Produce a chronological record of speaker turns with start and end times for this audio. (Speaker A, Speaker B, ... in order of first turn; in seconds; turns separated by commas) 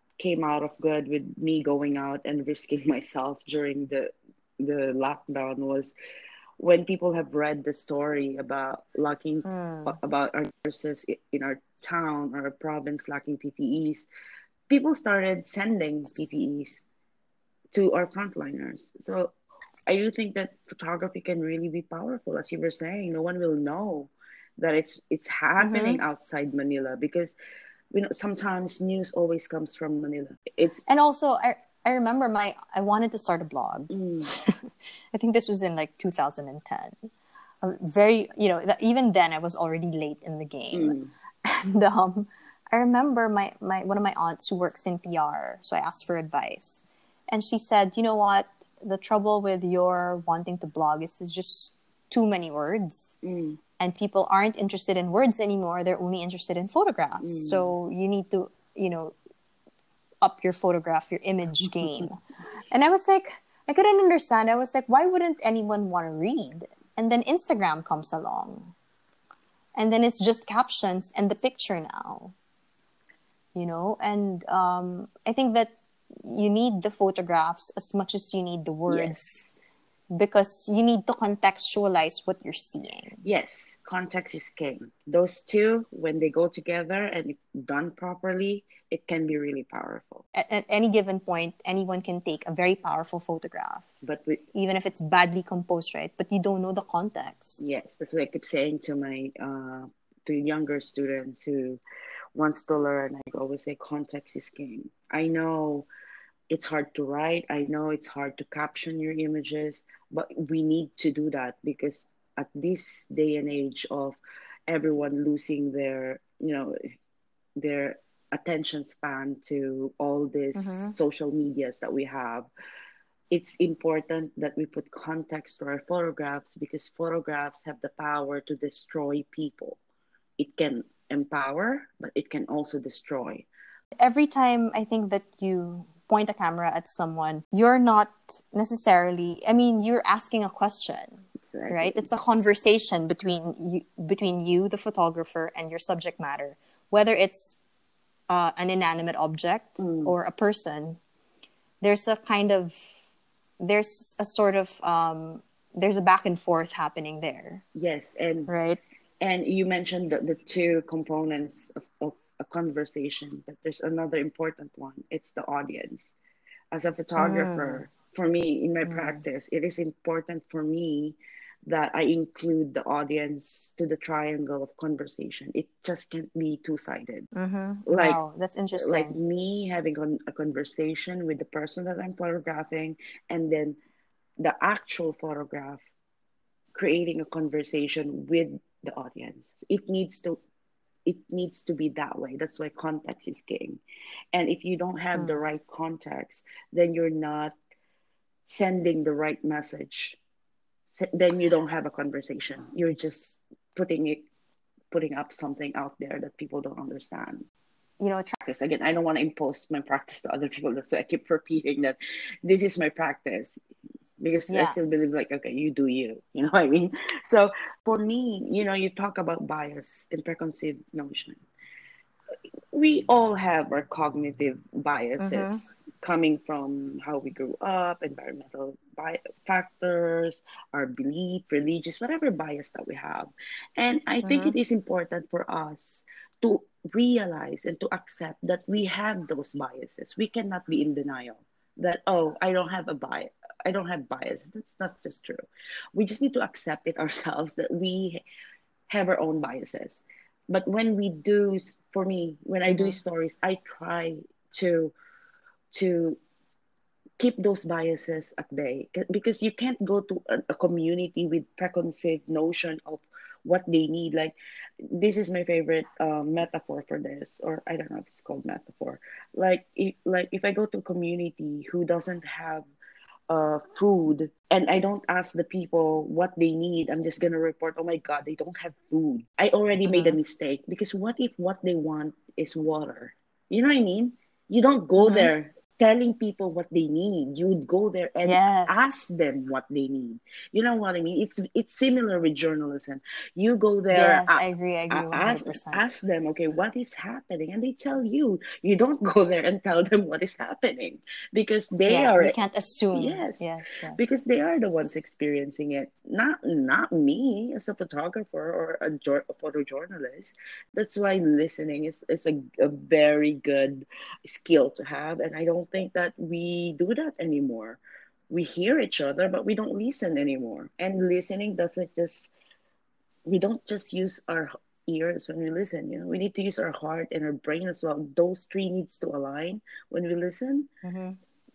Speaker A: 0.2-5.9, Speaker A: 6.6-14.1, Speaker B: 9.4-10.0, Speaker A: 14.7-16.9, Speaker A: 17.7-19.3, Speaker A: 19.9-27.4, Speaker B: 25.6-26.0, Speaker A: 27.9-30.8, Speaker B: 30.9-37.1, Speaker A: 33.9-34.3, Speaker B: 37.6-53.2, Speaker A: 40.7-41.1, Speaker A: 53.2-53.6, Speaker B: 53.8-59.1, Speaker A: 57.2-57.7, Speaker B: 60.2-62.2, Speaker B: 62.7-68.7, Speaker B: 69.8-72.3, Speaker B: 73.5-79.2, Speaker A: 78.9-79.5, Speaker B: 80.1-83.2, Speaker A: 83.2-90.2, Speaker B: 90.3-93.8, Speaker A: 94.0-94.4, Speaker B: 94.5-97.6, Speaker A: 97.6-101.8, Speaker A: 102.3-105.9, Speaker A: 106.5-116.8, Speaker A: 117.6-122.5, Speaker B: 120.5-121.0, Speaker A: 123.3-129.8, Speaker A: 130.4-133.5, Speaker B: 134.0-147.6, Speaker A: 141.4-142.1, Speaker B: 148.3-151.0, Speaker A: 149.8-150.1, Speaker B: 151.8-152.9, Speaker B: 153.6-157.6, Speaker A: 157.8-158.5, Speaker B: 158.5-158.8, Speaker A: 159.2-166.1, Speaker A: 166.7-177.3, Speaker B: 167.2-167.8, Speaker B: 168.8-169.2, Speaker B: 177.3-179.2, Speaker A: 177.9-178.2, Speaker A: 178.8-183.8, Speaker A: 184.4-185.8, Speaker A: 186.7-190.4, Speaker A: 191.0-193.8, Speaker A: 194.3-197.5, Speaker A: 198.5-200.2, Speaker A: 200.9-204.2, Speaker A: 204.9-207.5, Speaker B: 208.0-208.3, Speaker A: 208.3-213.6, Speaker A: 214.2-221.4, Speaker B: 214.5-214.8, Speaker A: 222.7-248.2, Speaker B: 225.2-225.6, Speaker B: 234.2-234.5, Speaker A: 248.9-254.9, Speaker B: 252.7-253.0, Speaker A: 255.7-256.2, Speaker A: 257.2-264.3, Speaker A: 264.9-272.7, Speaker A: 273.3-302.4, Speaker B: 279.9-280.2, Speaker B: 285.0-285.3, Speaker B: 288.2-289.0, Speaker B: 293.9-295.8, Speaker B: 301.9-304.0, Speaker A: 302.9-317.8, Speaker A: 318.3-322.3, Speaker A: 323.2-330.7, Speaker B: 330.8-331.2